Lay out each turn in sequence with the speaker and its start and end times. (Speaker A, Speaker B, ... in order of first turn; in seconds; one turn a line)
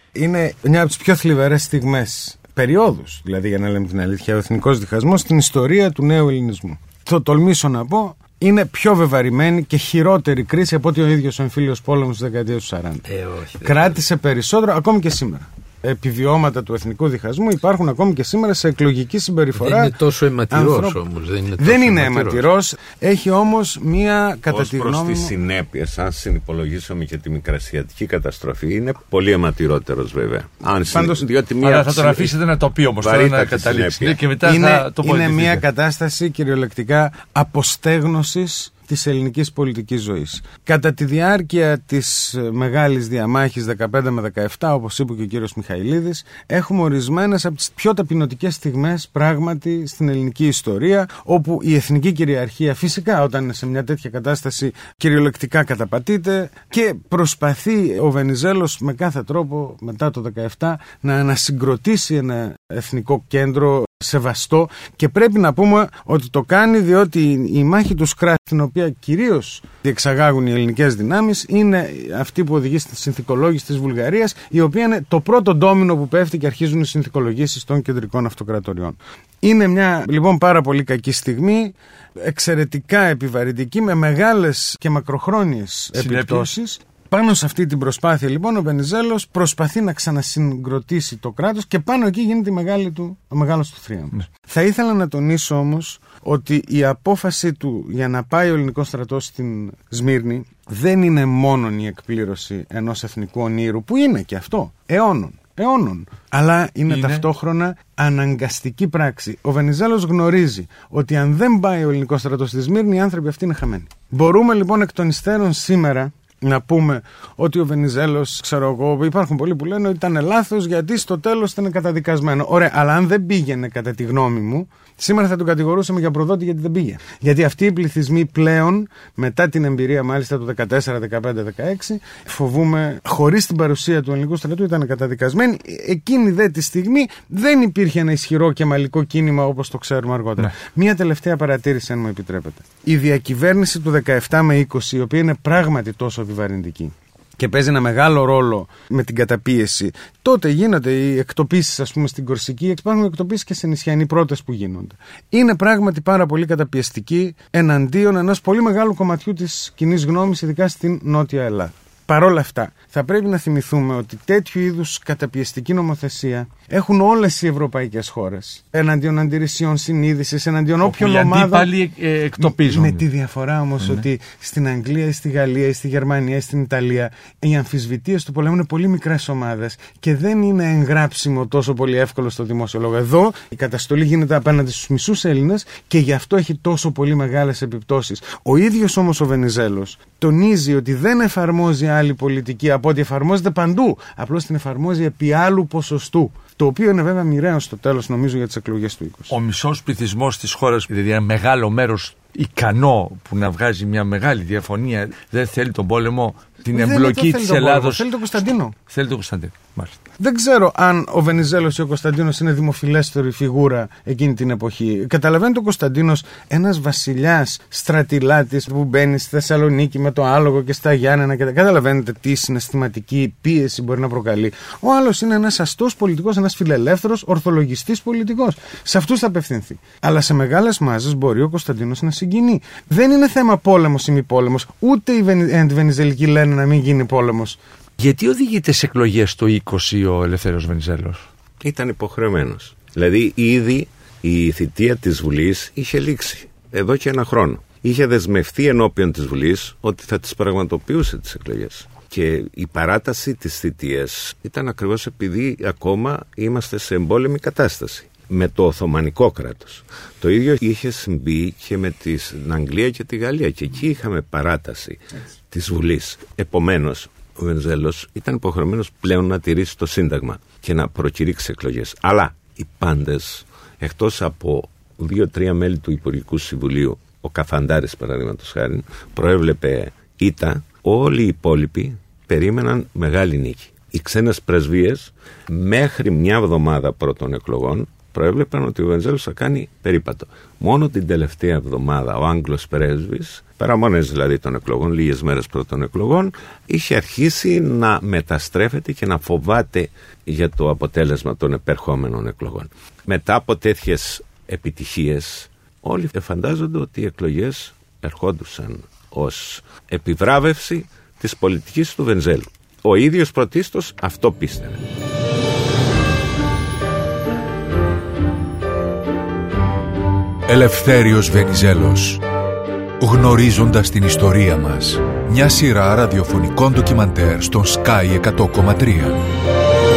Speaker A: 0.1-13.1
Speaker B: 13.1-13.9
Speaker A: 13.6-20.0
Speaker B: 19.6-22.4
Speaker A: 20.5-21.0
Speaker A: 21.6-25.3
Speaker C: 24.5-32.4
Speaker A: 30.9-31.2
Speaker D: 31.6-35.6
Speaker C: 33.0-34.2
Speaker A: 34.4-171.7
Speaker D: 86.0-86.5
Speaker D: 106.9-107.2
Speaker D: 170.8-173.0
Speaker A: 172.4-199.3
Speaker D: 199.3-208.0
Speaker A: 206.7-208.8
Speaker D: 208.9-210.0
Speaker A: 210.2-237.6
Speaker D: 238.0-241.2
Speaker C: 241.6-314.8
Speaker E: 320.5-322.2
Speaker E: 323.0-329.2